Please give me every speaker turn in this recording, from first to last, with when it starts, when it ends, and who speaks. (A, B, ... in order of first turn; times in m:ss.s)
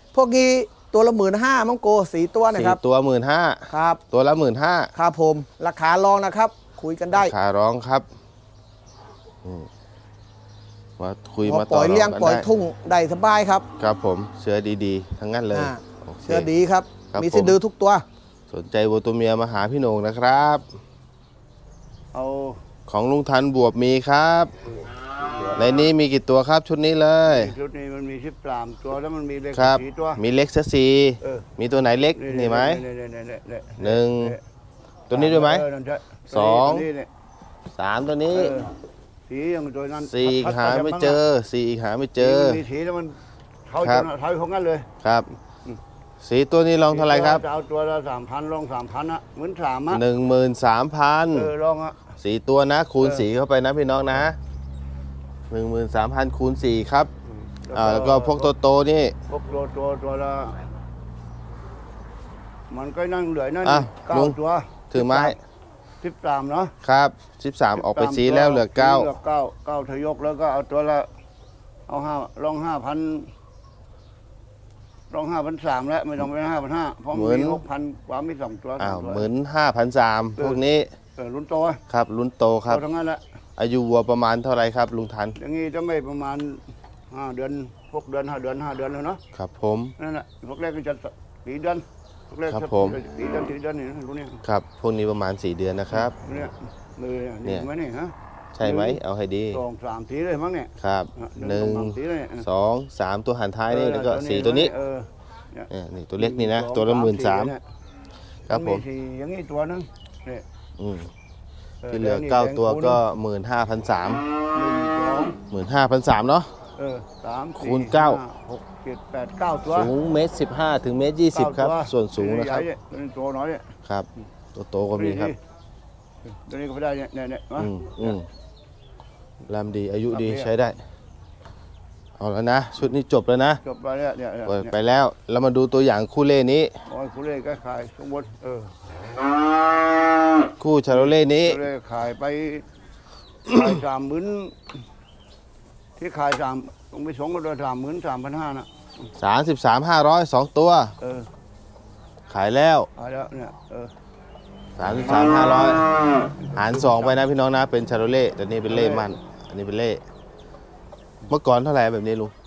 0:00.1-0:02.8 A
0:02.5-0:04.9 B
0:03.7-0:04.0 A
0:05.0-0:07.3 A
0:07.1-0:08.0 B
0:09.4-0:09.7 B
0:11.0-0:12.5 B
0:11.4-0:13.7 A
0:13.8-0:16.5 B
0:15.5-0:18.0 A
0:17.1-0:17.6 B
0:18.5-0:20.6 B
0:22.1-0:22.6 C
0:22.9-0:24.5 B
0:25.6-0:27.5 B
0:27.3-0:30.2 C
0:29.5-0:32.8 B
0:32.2-0:34.4 C
0:33.8-0:34.4 B
0:35.1-0:35.6 B
0:35.1-0:37.1 C
0:36.3-0:36.9 B
0:37.8-0:38.6 B
0:38.3-0:38.7 C
0:39.3-0:41.2 C
0:40.0-0:42.6 B
0:42.2-0:43.2 C
0:43.7-0:44.9 C
0:43.8-0:44.1 B
0:45.0-0:45.3 B
0:46.2-0:47.4 B
0:46.9-0:50.0 C
0:49.9-0:51.5 B
0:51.3-0:52.0 C
0:52.2-0:54.4 B
0:55.5-0:57.1 B
0:57.6-0:58.5 C
0:57.7-0:59.2 B
0:59.3-1:00.6 C
1:02.7-1:05.4 C
1:03.6-1:04.4 B
1:04.9-1:05.4 B
1:06.0-1:06.7 C
1:06.8-1:09.1 B
1:07.8-1:11.1 C
1:11.9-1:13.3 C
1:15.1-1:19.3 C
1:17.1-1:17.6 B
1:18.8-1:20.9 B
1:21.2-1:21.8 C
1:21.9-1:22.8 B
1:22.7-1:23.2 C
1:23.6-1:25.4 B
1:25.4-1:26.6 C
1:27.1-1:29.2 C
1:29.3-1:29.9 B
1:30.0-1:34.4 C
1:32.5-1:33.0 B
1:34.4-1:36.2 B
1:35.9-1:39.0 C
1:38.6-1:39.6 B
1:39.5-1:42.5 C
1:40.8-1:44.7 B
1:43.7-1:47.6 C
1:45.7-1:47.6 B
1:48.5-1:48.8 B
1:48.5-1:50.4 C
1:50.8-1:51.1 B
1:51.8-1:53.0 C
1:51.9-1:54.2 B
1:54.5-1:55.4 C
1:55.5-1:56.5 B
1:56.8-1:59.9 C
1:57.6-1:58.2 B
1:59.7-2:02.7 B
2:01.3-2:03.6 C
2:03.9-2:05.4 B
2:05.0-2:05.4 C
2:06.5-2:08.2 C
2:07.6-2:08.3 B
2:09.5-2:10.8 B
2:10.1-2:10.5 C
2:12.2-2:13.6 B
2:13.6-2:14.7 C
2:14.5-2:16.7 B
2:16.9-2:18.8 C
2:20.6-2:21.6 B
2:20.9-2:22.6 C
2:23.5-2:24.6 C
2:26.0-2:29.1 C
2:29.2-2:30.9 B
2:31.0-2:31.3 C
2:32.3-2:32.9 B
2:33.0-2:33.9 C
2:34.8-2:35.8 B
2:36.5-2:37.2 C
2:36.6-2:40.0 B
2:38.7-2:39.1 C
2:41.3-2:42.3 B